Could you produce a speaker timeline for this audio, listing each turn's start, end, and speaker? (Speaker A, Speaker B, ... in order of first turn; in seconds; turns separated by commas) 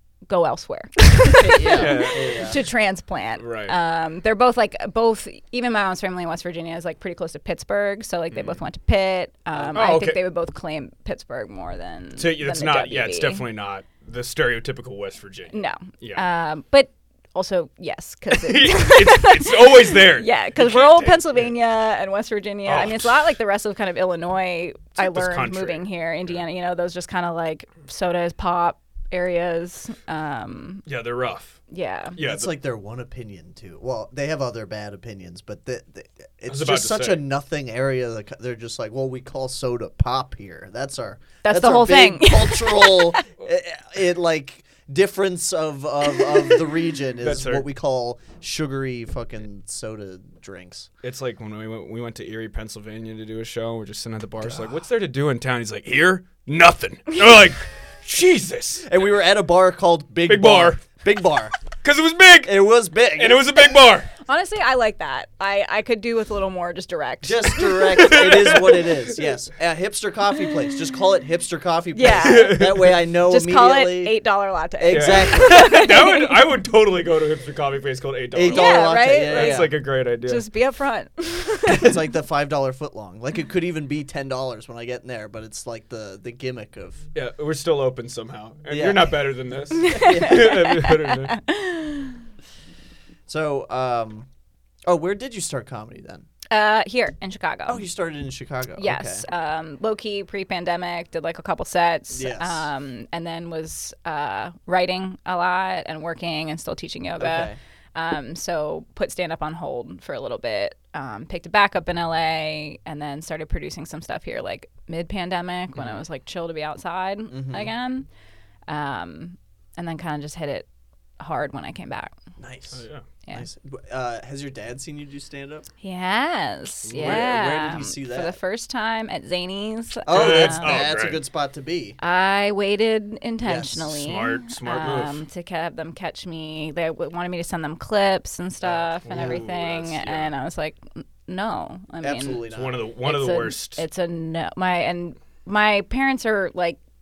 Speaker A: 0.3-13.4, Speaker B: 1.4-2.6, Speaker C: 1.7-2.6, Speaker C: 3.4-3.8, Speaker C: 8.3-8.6, Speaker B: 9.5-9.9, Speaker C: 9.7-10.2, Speaker C: 12.2-16.2, Speaker A: 15.5-30.8, Speaker C: 18.3-21.5, Speaker C: 22.6-23.4, Speaker C: 25.0-25.8, Speaker C: 30.9-31.6, Speaker A: 31.7-32.2, Speaker C: 32.1-32.5, Speaker B: 32.2-50.9, Speaker C: 36.5-37.3, Speaker A: 41.4-43.2, Speaker C: 47.2-47.6, Speaker C: 51.0-58.9, Speaker B: 54.4-54.7, Speaker B: 58.8-61.5, Speaker C: 60.3-60.9, Speaker C: 61.8-64.1, Speaker B: 62.4-63.4, Speaker A: 64.2-67.8, Speaker B: 67.2-74.2, Speaker C: 67.8-69.2, Speaker A: 71.9-76.3, Speaker C: 72.0-73.0, Speaker B: 74.8-75.6, Speaker C: 74.9-80.5, Speaker B: 78.3-79.7, Speaker A: 78.5-81.9, Speaker B: 81.7-87.0, Speaker C: 87.1-91.4, Speaker B: 88.7-89.1, Speaker A: 89.7-92.2, Speaker B: 89.9-90.5, Speaker B: 93.3-94.3, Speaker B: 94.8-96.2, Speaker A: 96.5-97.8, Speaker B: 97.7-99.2, Speaker A: 98.8-118.1, Speaker B: 102.1-102.7, Speaker B: 107.2-107.6, Speaker B: 117.3-117.7, Speaker A: 118.7-120.7, Speaker A: 121.2-122.2, Speaker B: 122.4-125.7, Speaker C: 122.7-123.0, Speaker A: 125.8-130.8, Speaker C: 126.9-127.4, Speaker B: 126.9-128.4, Speaker B: 130.1-132.0, Speaker C: 130.1-131.2, Speaker A: 132.0-142.4, Speaker B: 133.4-134.0, Speaker C: 133.8-135.2, Speaker C: 138.6-140.3, Speaker B: 139.1-139.4, Speaker B: 142.0-142.8, Speaker C: 142.5-143.8, Speaker A: 143.0-146.8